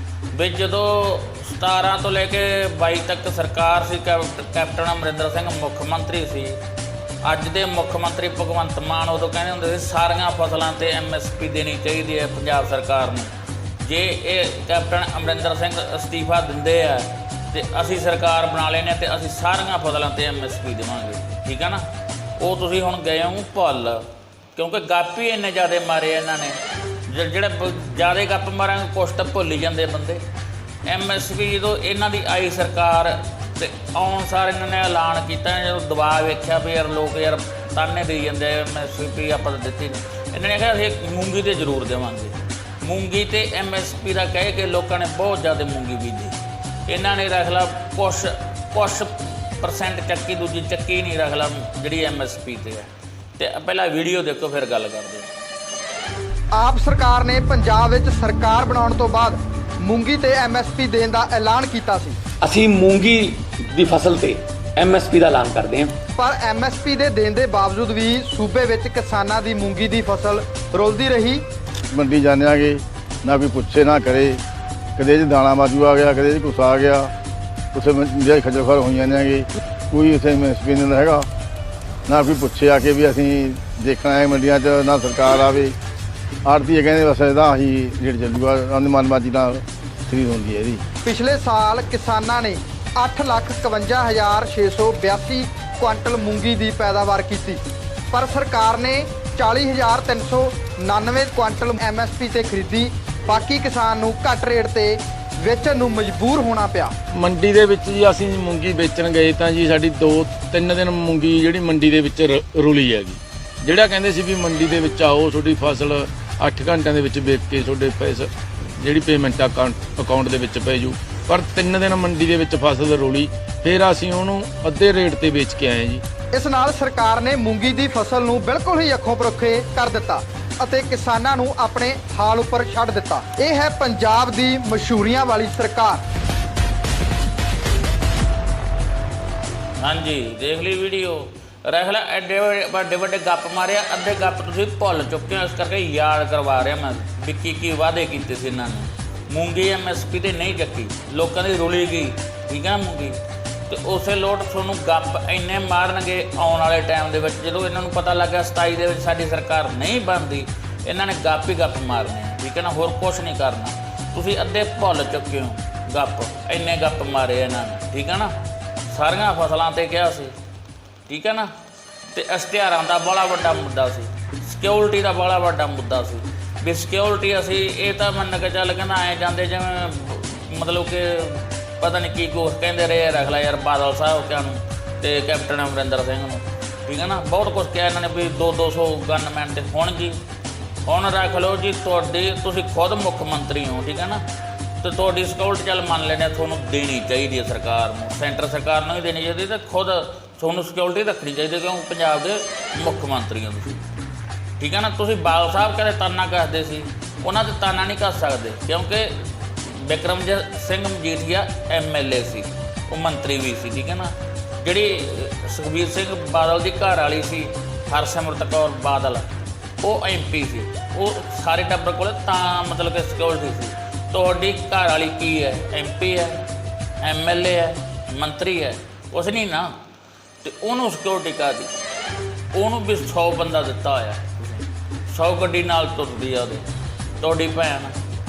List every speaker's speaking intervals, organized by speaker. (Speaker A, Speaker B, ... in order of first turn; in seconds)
Speaker A: 0.3-6.6, 7.2-21.8, 22.4-30.2, 30.9-46.4, 46.9-55.3, 139.8-153.2, 153.7-168.3, 168.9-170.3, 171.1-171.5, 172.1-190.2, 190.8-194.2, 194.8-203.8, 204.6-219.3, 219.8-226.4, 227.0-229.7, 230.4-231.7, 232.5-236.6, 237.2-237.9
Speaker B: 56.5-62.2, 66.2-71.4, 91.0-97.6, 98.1-106.9, 126.3-136.0
Speaker C: 62.4-65.9
Speaker D: 71.9-74.4, 75.0-77.1, 77.7-81.3, 82.1-85.7, 86.4-90.8
Speaker E: 107.1-126.0